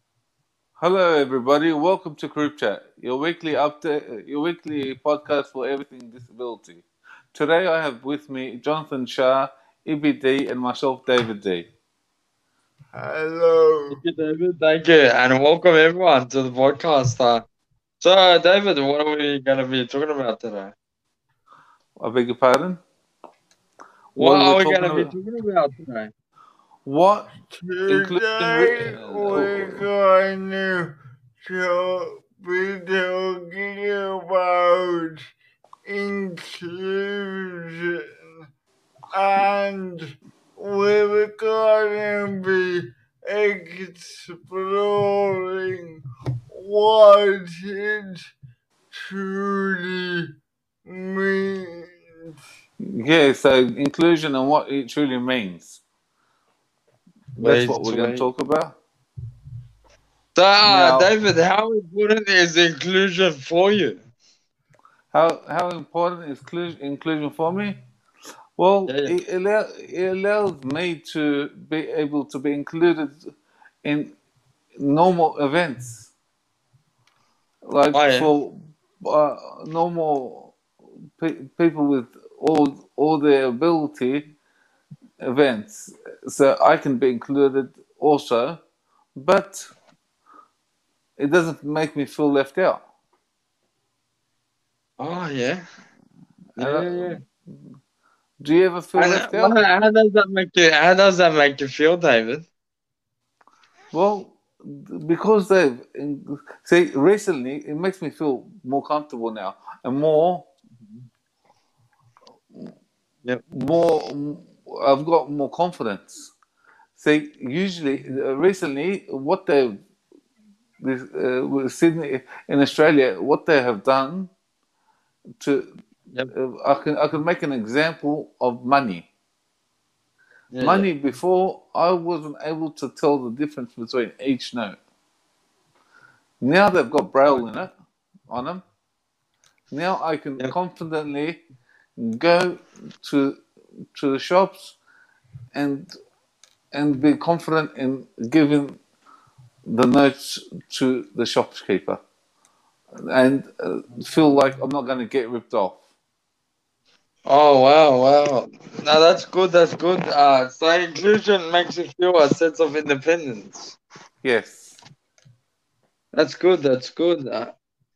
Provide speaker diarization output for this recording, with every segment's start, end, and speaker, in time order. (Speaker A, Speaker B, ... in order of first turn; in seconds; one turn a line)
Speaker A: 0.8-11.7
Speaker B: 12.9-14.0
Speaker C: 13.9-17.4
Speaker C: 18.0-20.7
Speaker A: 22.0-22.8
Speaker A: 24.1-25.1
Speaker C: 24.1-26.1
Speaker A: 26.8-27.3
Speaker B: 27.5-35.3
Speaker A: 27.9-29.9
Speaker B: 35.8-38.5
Speaker B: 39.1-48.3
Speaker B: 48.9-50.3
Speaker B: 50.8-52.0
Speaker A: 52.8-55.8
Speaker A: 57.4-58.8
Speaker C: 57.4-58.3
Speaker C: 60.4-64.0
Speaker A: 60.6-61.1
Speaker A: 65.1-67.8
Speaker A: 68.6-73.3
Speaker C: 68.9-69.2
Speaker A: 73.8-74.2
Speaker A: 74.8-76.1
Speaker A: 77.7-80.6
Speaker C: 77.9-78.3
Speaker A: 81.2-84.3
Speaker A: 85.2-88.6
Speaker A: 89.2-89.7
Speaker A: 91.2-92.8
Speaker C: 95.0-95.6
Speaker C: 96.6-97.2
Speaker A: 96.6-97.6
Speaker A: 98.4-99.5
Speaker C: 99.0-102.5
Speaker A: 103.9-110.5
Speaker A: 113.5-116.3
Speaker A: 117.0-119.8
Speaker A: 120.8-124.3
Speaker A: 125.4-125.7
Speaker A: 126.3-129.1
Speaker C: 130.5-130.9
Speaker A: 130.6-134.8
Speaker A: 136.4-137.7
Speaker A: 138.3-138.6
Speaker A: 139.7-141.4
Speaker A: 142.0-143.4
Speaker A: 143.9-144.8
Speaker A: 145.5-145.9
Speaker A: 146.7-148.8
Speaker A: 149.7-152.0
Speaker A: 153.0-155.8
Speaker C: 157.2-163.8
Speaker A: 164.2-164.8
Speaker C: 166.1-167.6